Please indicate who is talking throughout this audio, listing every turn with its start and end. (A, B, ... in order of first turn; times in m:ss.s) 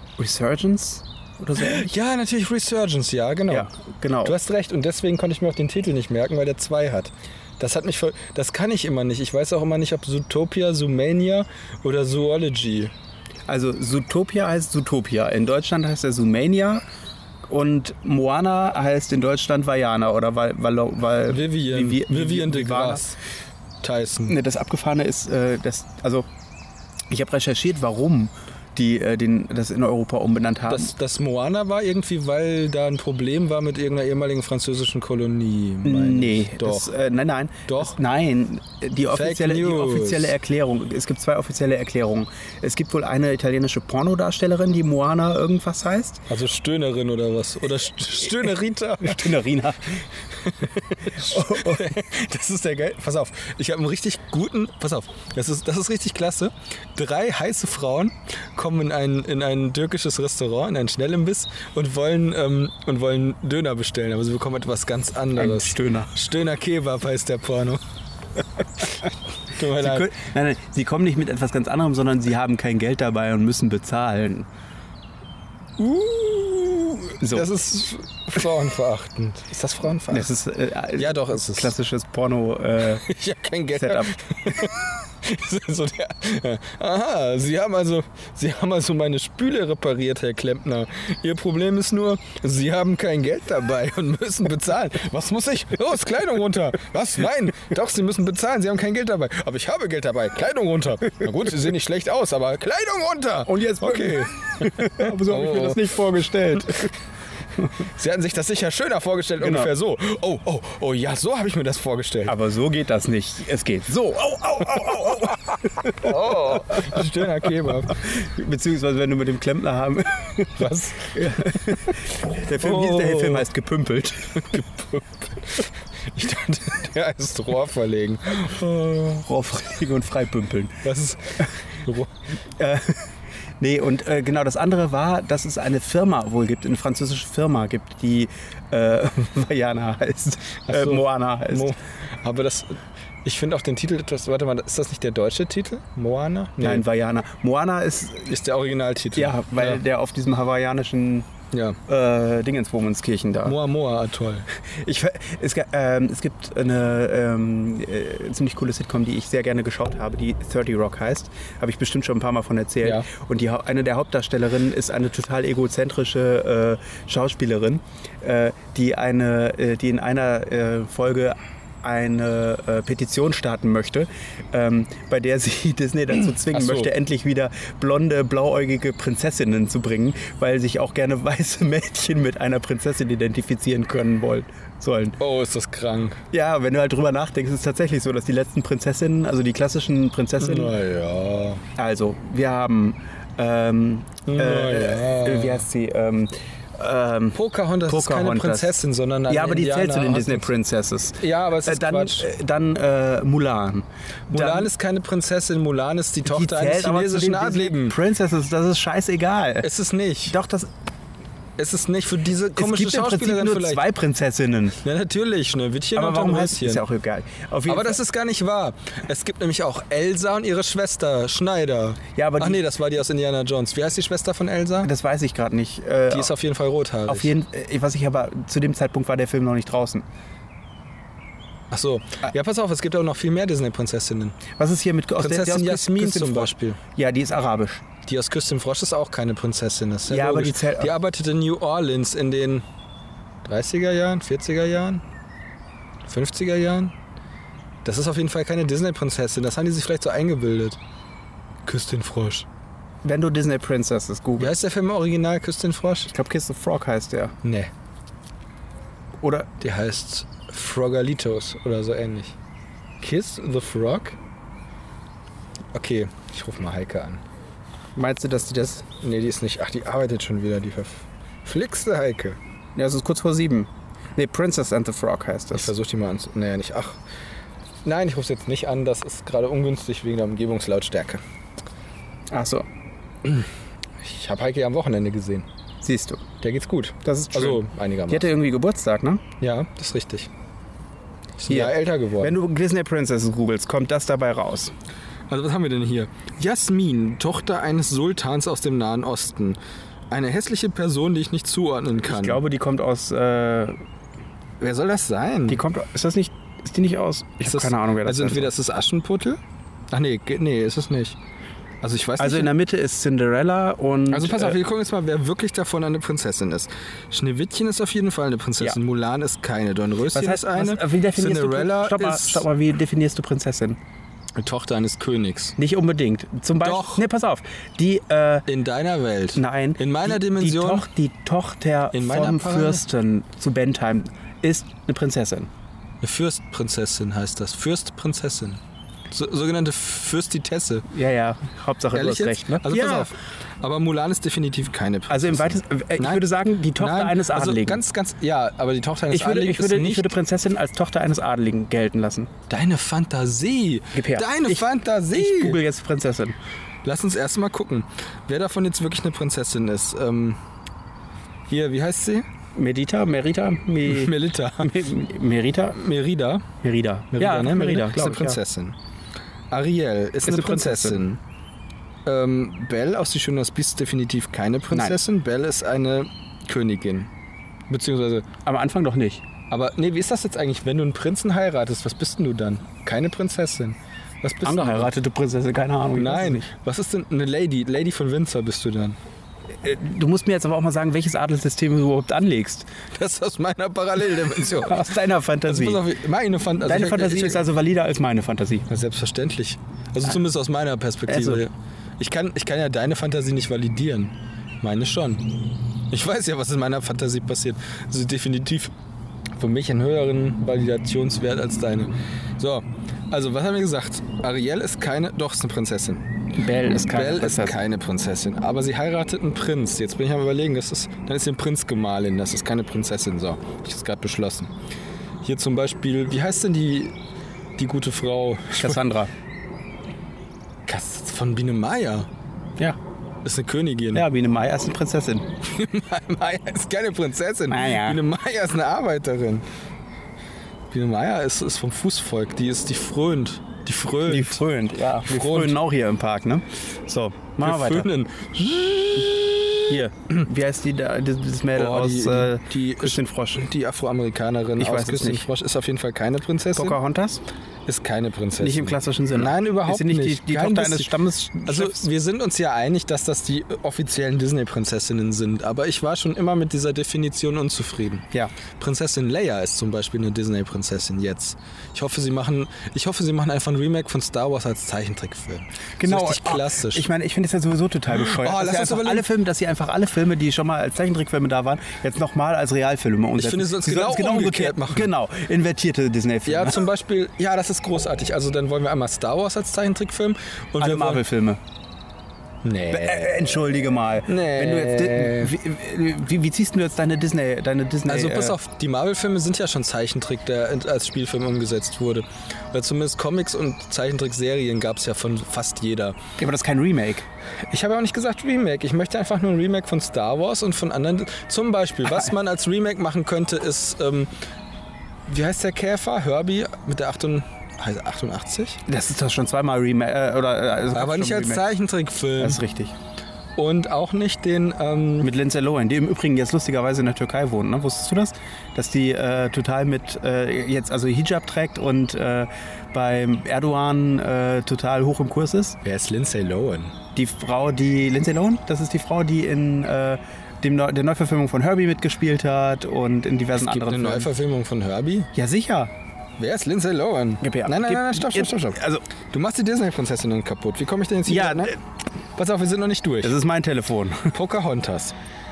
0:00.2-0:02.0 A
0:01.6-0:03.7 B
0:03.5-0:04.4 A
0:04.2-0:12.9 B
0:13.5-0:16.8 A
0:17.5-0:23.1 A
0:21.3-0:23.2 B
0:23.8-0:24.4 B
0:24.3-0:26.3 A
0:27.1-0:30.9 A
0:30.7-0:36.9 B
0:35.8-0:46.2 A
0:37.7-0:38.0 B
0:39.1-0:40.3 B
0:46.3-0:49.4 B
0:49.0-0:50.1 A
0:50.4-1:07.8 B
0:51.0-0:51.9 A
1:05.4-1:06.1 A
1:09.6-1:10.1 B
1:09.7-1:14.5 A
1:15.8-1:20.3 B
1:17.2-1:17.5 A
1:20.1-1:23.0 A
1:21.0-1:21.7 B
1:23.0-1:45.8 B
1:23.7-1:24.2 A
1:43.5-1:46.9 A
1:47.8-1:52.4 B
1:49.4-1:49.7 A
1:52.3-1:57.0 A
1:56.0-1:58.0 B
1:57.9-2:04.5 A
2:00.6-2:01.6 B
2:02.6-2:03.5 B
2:04.4-2:09.3 B
2:09.2-2:10.8 A
2:10.8-2:12.1 B
2:12.6-2:21.7 A
2:20.7-2:26.8 B
2:26.6-2:28.3 A
2:28.3-2:29.8 B
2:29.2-2:31.3 A
2:31.5-2:31.8 B
2:31.9-2:33.6 A
2:33.4-2:34.5 B
2:34.6-3:05.2 A
2:56.5-2:56.9 B
3:05.2-3:06.2 B
3:06.3-3:10.8 A
3:10.4-3:11.6 B
3:11.8-3:24.7 A
3:14.3-3:15.7 B
3:17.3-3:20.5 B
3:21.2-3:22.3 B
3:24.3-3:28.0 B
3:26.2-3:29.7 A
3:29.6-3:30.4 B
3:30.3-3:30.7 A
3:31.6-3:33.8 B
3:32.6-3:34.8 A
3:34.8-3:36.8 B
3:36.0-3:38.0 A
3:37.7-3:44.9 B
3:42.2-3:42.6 A
3:44.8-3:46.3 A
3:46.1-3:47.3 B
3:47.1-3:50.0 A
3:51.7-3:54.4 B
3:54.6-3:57.8 A
3:55.2-3:56.8 B
3:58.1-4:02.6 B
4:00.1-4:00.9 A
4:03.4-4:05.0 B
4:06.1-4:06.9 B
4:07.8-4:10.8 B
4:11.6-4:12.5 B
4:13.0-4:14.5 A
4:14.4-4:16.1 B
4:16.1-4:17.4 A
4:17.4-4:17.7 B
4:19.2-4:19.5 A
4:19.6-4:22.4 B
4:23.0-4:24.2 B
4:25.7-4:27.2 B
4:28.0-4:28.9 A
4:29.0-4:32.4 B
4:32.8-4:35.7 A
4:35.5-4:37.0 B
4:37.8-4:41.2 B
4:42.3-4:42.7 A
4:43.2-4:43.5 B
4:44.0-4:45.5 B
4:45.8-4:46.3 A
4:46.4-4:48.3 B
4:47.0-4:49.2 A
4:49.4-4:50.3 B
4:51.4-4:52.4 B
4:51.5-4:54.7 A
4:55.3-4:59.6 B
5:00.1-5:02.4 B
5:02.0-5:03.8 A
5:04.6-5:05.6 B
5:05.5-5:08.5 A
5:07.4-5:09.4 B
5:09.9-5:11.2 B
5:11.8-5:12.5 B
5:12.2-5:14.6 A
5:14.1-5:22.4 B
5:20.1-5:23.8 A
5:24.4-5:25.6 B
5:25.6-5:28.5 A
5:26.6-5:27.0 B
5:28.5-5:30.9 B
5:29.4-5:35.5 A
5:31.9-5:32.8 B
5:36.0-5:40.9 B
5:40.9-5:43.1 A
5:41.9-5:50.1 B
5:45.1-5:47.8 A
5:49.1-5:52.3 A
5:52.5-5:55.6 B
5:53.9-5:56.4 A
5:56.8-6:00.4 B
6:01.5-6:02.2 B
6:02.6-6:05.8 A
6:03.8-6:04.8 B
6:05.8-6:06.5 B
6:06.6-6:08.4 A
6:07.1-6:08.8 B
6:09.5-6:11.2 B
6:10.3-6:11.0 A
6:12.0-6:17.1 B
6:14.7-6:15.0 A
6:17.7-6:18.3 B
6:18.4-6:19.2 A
6:19.5-6:24.9 B
6:24.4-6:26.5 A
6:26.0-6:29.0 B
6:29.6-6:32.7 A
6:32.9-6:37.4 B
6:34.6-6:35.8 A
6:36.6-6:38.7 A
6:38.7-6:45.3 B
6:41.1-6:41.4 A
6:45.9-6:48.7 B
6:49.4-6:56.1 B
6:56.4-6:57.6 A
6:56.7-7:04.5 B
7:05.2-7:06.9 B
7:07.6-7:08.8 B
7:08.5-7:09.1 A
7:10.7-7:12.1 B
7:13.2-7:14.0 B
7:13.9-7:15.3 A
7:15.4-7:19.4 B
7:17.5-7:18.0 A
7:20.7-7:24.4 B
7:24.1-7:27.9 A
7:25.1-7:25.6 B
7:27.4-7:29.8 B
7:29.7-7:33.5 A
7:31.6-7:36.8 B
7:34.6-7:35.2 A
7:36.6-7:37.2 A
7:37.7-7:40.9 B
7:38.4-7:41.9 A
7:41.5-7:56.9 B
7:55.8-8:06.6 A
7:57.9-7:59.1 B
8:03.2-8:04.9 B
8:06.3-8:11.0 B
8:10.6-8:11.4 A
8:12.4-8:13.3 B
8:12.7-8:18.4 A
8:14.1-8:15.3 B
8:17.9-8:26.0 B
8:26.2-8:27.1 A
8:27.5-8:34.1 B
8:35.1-8:38.6 B
8:38.7-8:41.4 A
8:40.7-8:42.4 B
8:42.2-8:42.8 A
8:43.4-8:45.1 B
8:45.0-8:55.6 A
8:55.6-8:56.8 B
8:57.0-9:04.1 A
9:03.4-9:05.1 B
9:05.1-9:05.7 A
9:06.2-9:08.6 B
9:07.2-9:08.8 A
9:09.1-9:11.5 B
9:11.1-9:11.6 A
9:12.2-9:13.2 B
9:13.0-9:14.2 A
9:14.1-9:15.0 B